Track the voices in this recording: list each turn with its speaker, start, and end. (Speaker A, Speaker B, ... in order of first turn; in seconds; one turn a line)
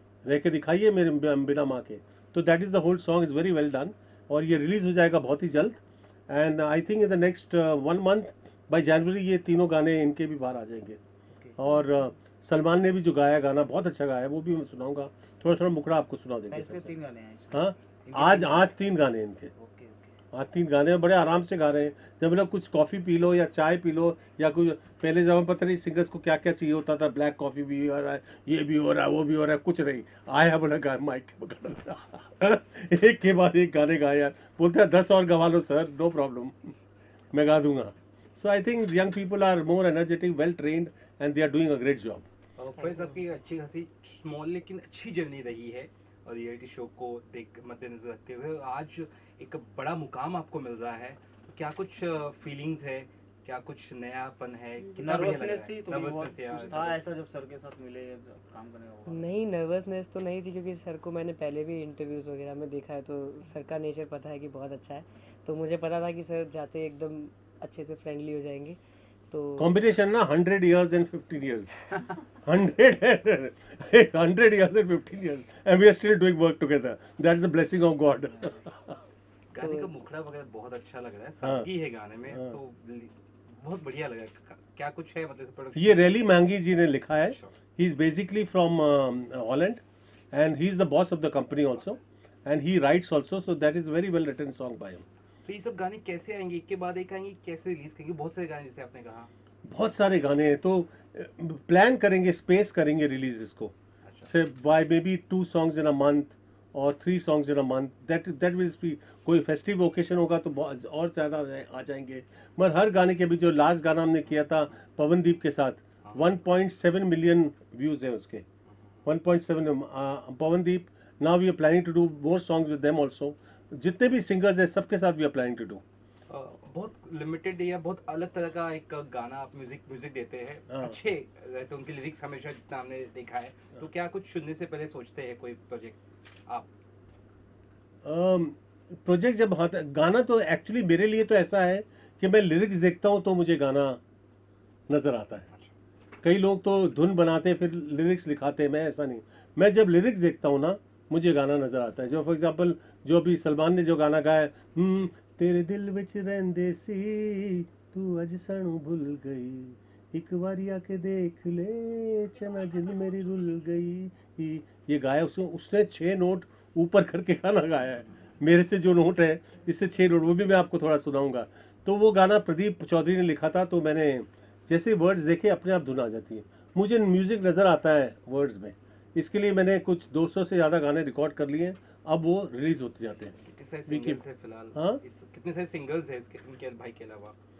Speaker A: 0.2-11.0
Speaker A: 11.6-17.0
Speaker B: 16.5-18.7
Speaker A: 17.5-19.5
Speaker B: 19.6-20.1
Speaker A: 20.3-36.7
Speaker A: 37.3-42.2
Speaker C: 42.6-57.1
Speaker B: 54.9-59.3
Speaker D: 59.1-68.8
Speaker D: 69.3-69.7
Speaker A: 69.6-71.8
Speaker A: 72.4-79.0
Speaker C: 79.5-86.1
Speaker D: 79.6-79.9
Speaker A: 81.4-81.7
Speaker A: 85.7-95.0
Speaker C: 95.4-99.3
Speaker A: 99.7-103.7
Speaker C: 104.0-104.3
Speaker A: 104.3-118.4
Speaker C: 116.0-116.3
Speaker A: 119.0-125.8
Speaker C: 126.3-136.7
Speaker A: 130.7-130.9
Speaker A: 138.0-144.0
Speaker A: 144.9-145.5
Speaker A: 146.2-183.3
Speaker C: 183.4-187.4
Speaker A: 183.9-184.2
Speaker A: 184.7-185.0